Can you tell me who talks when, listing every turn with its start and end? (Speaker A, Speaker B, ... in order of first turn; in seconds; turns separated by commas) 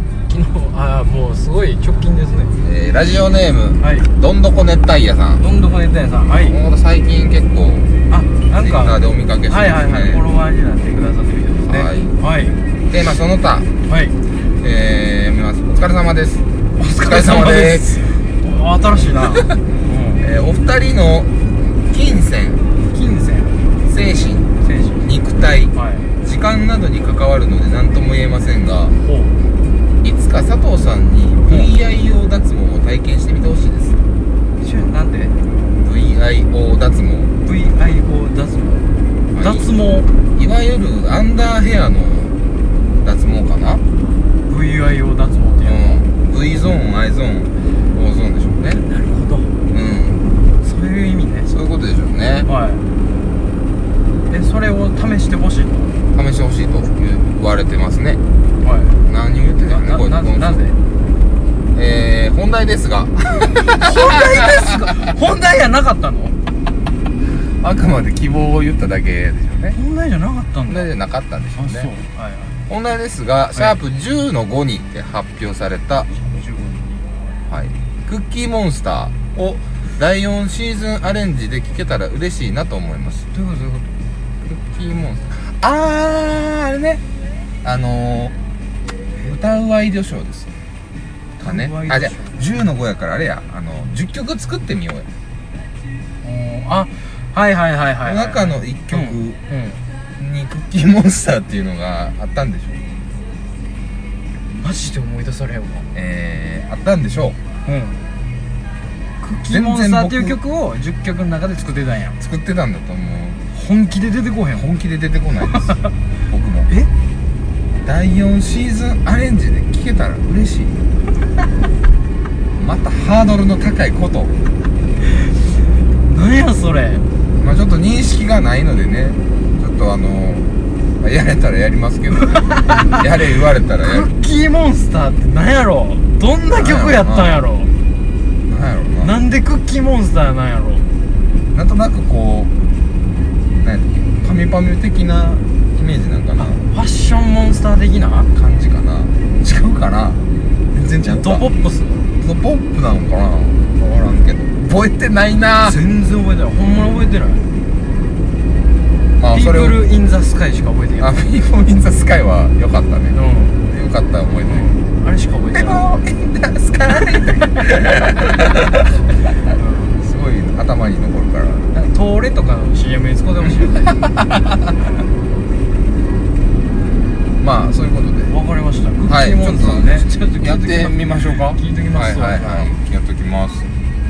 Speaker A: 0.3-2.5, Speaker B: 2.6-5.4, Speaker A: 3.8-4.1, Speaker A: 5.4-6.6, Speaker B: 6.3-7.9, Speaker A: 8.1-12.6, Speaker B: 8.5-10.2, Speaker B: 11.6-12.2, Speaker B: 12.9-13.7, Speaker A: 13.9-14.1, Speaker B: 14.6-16.4, Speaker A: 16.8-20.2, Speaker B: 17.0-18.2, Speaker B: 19.3-19.6, Speaker B: 20.2-21.3, Speaker B: 21.9-22.6, Speaker A: 22.9-23.6, Speaker B: 23.9-28.9, Speaker A: 24.6-25.1, Speaker A: 25.7-26.1, Speaker A: 29.0-29.4, Speaker B: 30.0-34.0, Speaker A: 31.5-31.7, Speaker A: 34.6-35.3, Speaker B: 35.8-37.3, Speaker A: 37.4-38.9, Speaker B: 39.3-39.7, Speaker A: 39.4-40.1, Speaker B: 40.3-42.4, Speaker B: 43.0-43.8, Speaker A: 44.5-46.0, Speaker B: 45.6-48.8, Speaker A: 48.7-49.5, Speaker B: 49.7-50.2, Speaker A: 50.6-51.5, Speaker B: 51.5-52.5, Speaker A: 52.5-52.8, Speaker A: 54.3-55.9, Speaker B: 56.1-58.2, Speaker A: 58.6-59.0, Speaker B: 59.0-60.6, Speaker A: 59.6-60.8, Speaker B: 61.7-65.1, Speaker A: 63.7-66.3, Speaker B: 67.4-69.8, Speaker A: 69.7-70.9, Speaker B: 70.7-71.9, Speaker A: 71.5-72.6, Speaker B: 72.7-76.1, Speaker A: 76.1-77.4, Speaker B: 77.5-83.2, Speaker A: 83.3-83.9, Speaker B: 84.4-87.0, Speaker B: 87.6-88.3, Speaker B: 89.2-90.5, Speaker A: 91.4-92.6, Speaker B: 91.4-95.1, Speaker A: 96.2-99.8, Speaker B: 98.0-99.4, Speaker B: 100.2-102.8, Speaker A: 104.5-105.9, Speaker B: 105.9-107.4, Speaker A: 107.6-108.0, Speaker A: 109.2-112.2, Speaker B: 109.5-110.4, Speaker B: 112.2-113.4, Speaker A: 113.5-114.7, Speaker B: 114.5-116.7, Speaker A: 115.5-115.9, Speaker B: 117.8-120.8, Speaker B: 122.5-124.3, Speaker A: 125.1-125.3, Speaker A: 126.0-127.0, Speaker B: 127.3-134.1, Speaker A: 132.2-133.1, Speaker A: 133.8-137.7, Speaker B: 136.6-137.4, Speaker B: 138.5-139.1, Speaker A: 139.0-140.8, Speaker B: 141.5-142.5, Speaker B: 143.5-146.6, Speaker A: 146.4-148.3, Speaker B: 148.3-150.2, Speaker B: 150.7-151.5, Speaker A: 151.0-152.1, Speaker B: 152.2-155.8, Speaker A: 155.6-157.5, Speaker B: 159.2-159.8, Speaker A: 159.3-161.2, Speaker B: 161.0-164.7, Speaker A: 163.1-163.6, Speaker A: 164.4-165.9, Speaker B: 165.5-169.0, Speaker A: 169.5-170.0, Speaker B: 170.0-171.7, Speaker A: 171.7-174.0, Speaker B: 174.0-174.4, Speaker B: 177.4-178.3, Speaker A: 178.3-182.7, Speaker B: 179.1-183.7